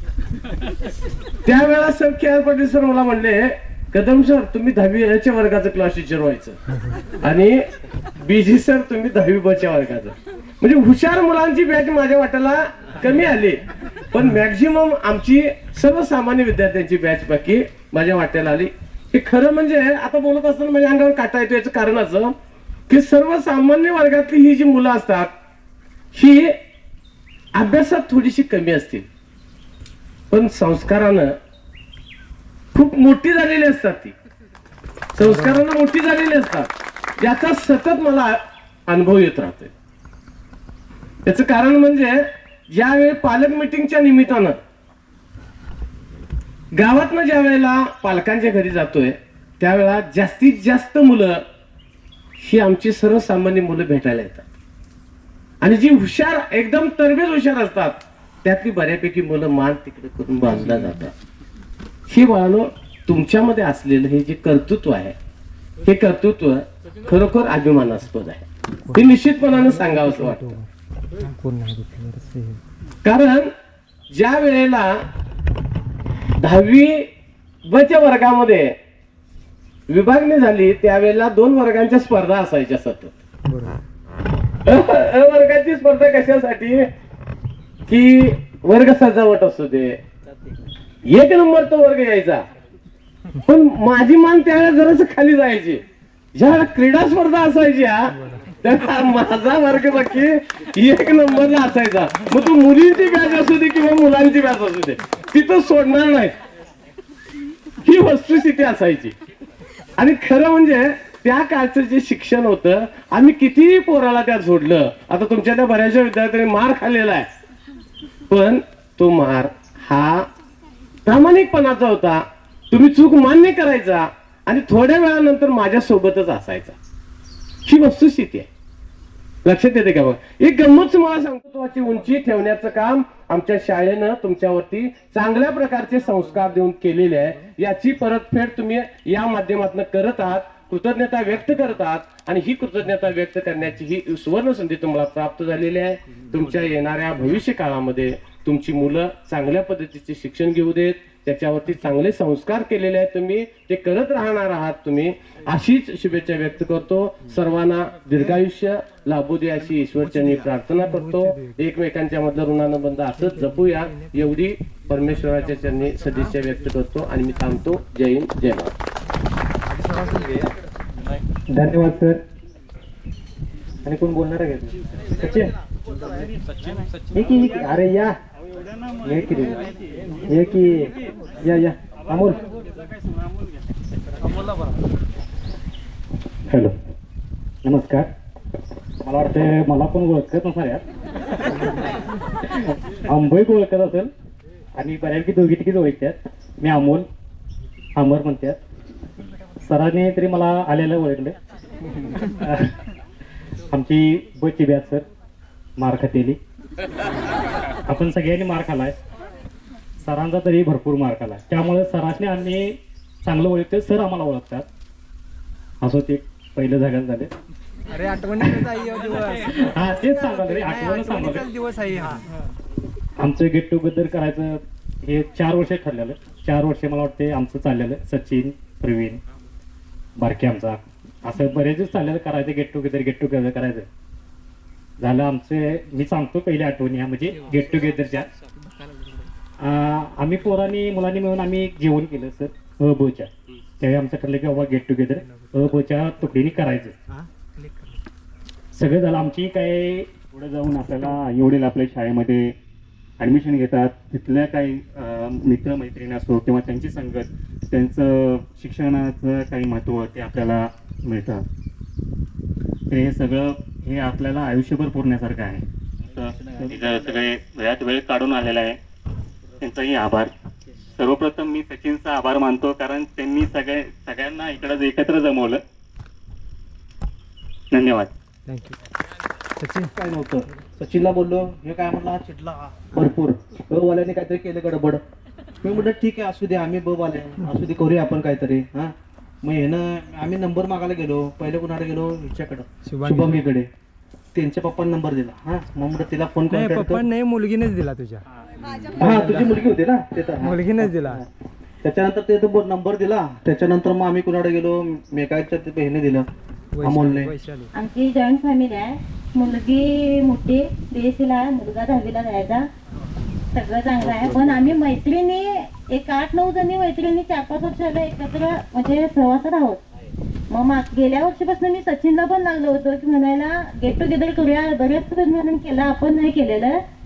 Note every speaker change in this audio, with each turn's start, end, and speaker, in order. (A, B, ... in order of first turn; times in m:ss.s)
0:01.4-0:06.6 A
0:07.2-0:07.6 A
0:08.2-0:22.3 A
0:22.9-0:25.3 A
0:26.1-0:26.5 A
0:27.6-0:29.1 A
0:30.3-0:31.3 A
0:32.8-0:34.1 A
0:35.2-0:36.7 A
0:35.2-0:35.6 B
0:37.2-0:39.7 A
0:41.2-0:42.2 A
0:42.7-0:44.6 A
0:46.8-0:51.4 A
0:52.4-0:54.4 A
0:55.6-1:01.1 A
1:02.1-1:05.1 A
1:05.9-1:10.4 A
1:08.8-1:12.6 B
1:13.0-1:13.5 A
1:14.1-1:14.9 A
1:16.4-1:17.0 A
1:17.7-1:18.7 A
1:19.9-1:23.1 A
1:23.5-1:23.8 B
1:24.7-1:26.9 A
1:27.9-1:30.0 A
1:31.1-1:32.4 A
1:33.5-1:35.8 A
1:36.4-1:38.1 A
1:38.2-1:38.5 B
1:38.6-1:46.4 A
1:47.8-1:49.2 A
1:50.0-1:57.3 A
1:58.3-2:00.3 A
2:01.1-2:06.8 A
2:07.7-2:08.5 A
2:09.4-2:48.7 A
2:40.8-2:41.6 B
2:43.2-2:44.1 B
2:51.5-2:52.2 B
2:53.8-2:55.5 B
2:57.2-2:58.1 B
2:59.0-2:59.6 B
3:00.3-3:00.9 B
3:01.4-3:02.4 B
3:07.6-3:08.1 C
3:09.0-3:10.8 C
3:13.1-3:14.1 C
3:14.8-3:17.1 C
3:18.0-3:18.6 C
3:19.6-3:21.4 C
3:23.7-3:25.0 C
3:25.8-3:26.4 C
3:27.9-3:28.9 C
3:30.0-3:34.6 C
3:35.8-3:37.3 C
3:37.9-3:42.2 B
3:39.8-3:41.4 C
3:43.2-3:49.2 C
3:50.2-3:53.9 C
3:55.0-3:58.3 C
3:59.6-4:03.3 C
4:03.8-4:06.9 C
4:05.2-4:05.7 B
4:07.6-4:07.9 B
4:08.8-4:12.5 C
4:13.2-4:21.4 C
4:22.9-4:25.6 C
4:26.2-4:28.8 C
4:29.6-4:30.3 C
4:31.0-4:35.6 C
4:37.7-4:38.1 C
4:38.5-4:38.8 B
4:39.6-4:39.9 B
4:40.0-4:42.4 D
4:42.9-4:45.0 D
4:45.6-4:53.7 D
4:52.9-4:53.4 B
4:54.4-4:57.0 D
4:56.5-4:58.2 B
4:59.0-4:59.6 B
4:59.0-5:01.2 D
5:00.4-5:01.2 B
5:01.8-5:06.3 D
5:06.7-5:07.7 B
5:06.8-5:07.3 D
5:07.7-5:12.7 E
5:13.5-5:19.8 E
5:14.2-5:14.7 D
5:20.5-5:26.8 E